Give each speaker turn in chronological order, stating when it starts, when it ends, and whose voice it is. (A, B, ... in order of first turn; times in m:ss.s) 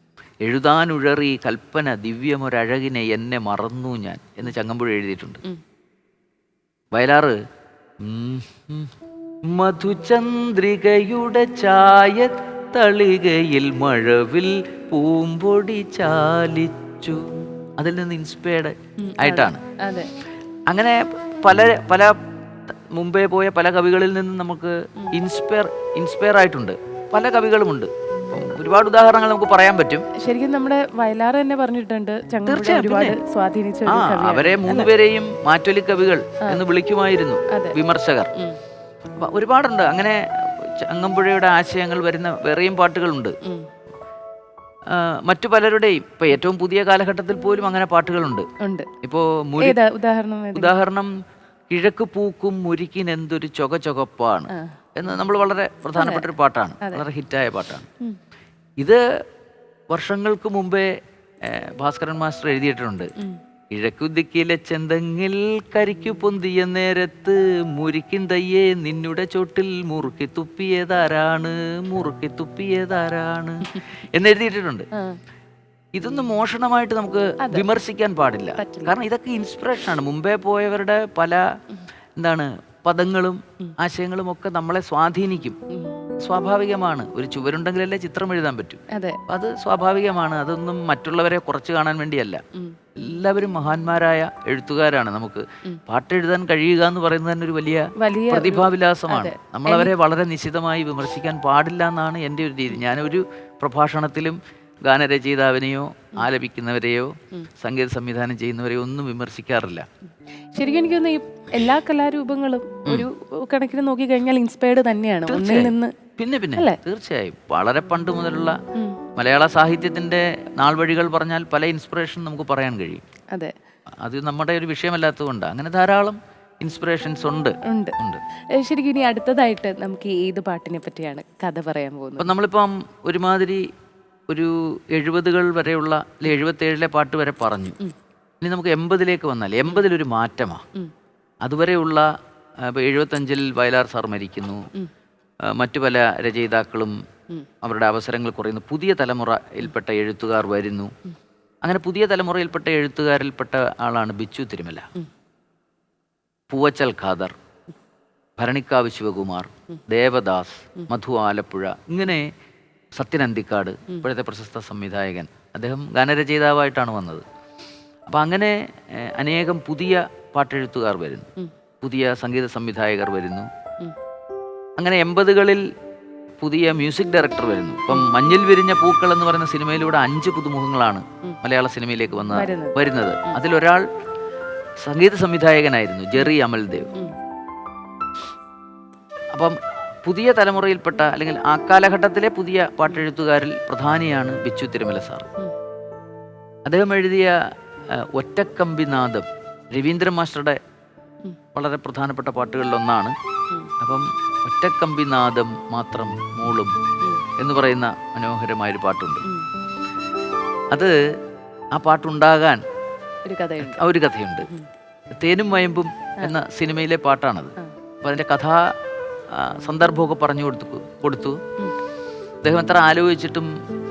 0:00.4-0:05.4 A
0:06.9-0:07.4 A
0:08.0-0:08.9 A
0:09.5-0:19.6 A
0:19.0-0:20.1 B
0:20.7-0:22.1 A
0:22.9-0:30.0 A
0:30.2-0:34.9 B
0:32.5-0:33.2 A
0:33.8-0:38.3 A
0:37.5-0:37.8 B
0:39.2-0:43.4 A
0:44.9-0:48.4 A
0:48.6-0:48.9 B
0:49.0-0:49.8 A
0:49.6-0:50.7 B
0:50.5-0:51.1 A
0:51.7-0:57.9 A
0:54.5-0:54.8 B
0:56.0-0:56.2 B
0:59.9-1:00.9 A
1:01.4-1:03.1 A
1:03.7-1:14.9 A
1:15.9-1:21.4 A
1:17.4-1:17.6 B
1:18.6-1:18.9 B
1:22.2-1:25.6 A
1:25.7-1:26.0 B
1:26.2-1:32.4 A
1:28.9-1:29.2 B
1:33.0-1:49.8 A
1:38.0-1:39.9 B
1:50.5-1:55.9 B
1:55.3-1:58.6 A
1:59.2-2:03.0 A
2:04.0-2:08.2 A
2:07.6-2:07.9 B
2:08.5-2:12.3 B
2:12.2-2:13.6 A
2:14.3-2:17.8 A
2:18.4-2:20.6 A
2:21.4-2:22.1 A
2:22.6-2:24.6 A
2:25.5-2:26.9 A
2:27.6-2:30.9 A
2:31.6-2:34.8 A
2:36.5-2:37.3 A
2:38.4-2:42.2 A
2:43.0-2:47.2 A
2:48.1-2:51.3 A
2:51.8-2:53.5 A
2:54.8-2:55.6 A
2:56.4-3:03.8 A
3:02.3-3:02.8 B
3:04.8-3:06.9 A
3:09.3-3:15.2 A
3:16.6-3:17.3 A
3:17.9-3:20.6 A
3:21.5-3:23.1 A
3:23.8-3:26.7 A
3:27.4-3:29.2 A
3:31.7-3:32.6 A
3:33.2-3:33.8 B
3:33.6-3:34.5 A
3:35.2-3:38.7 A
3:39.3-3:41.4 A
3:42.4-3:43.5 A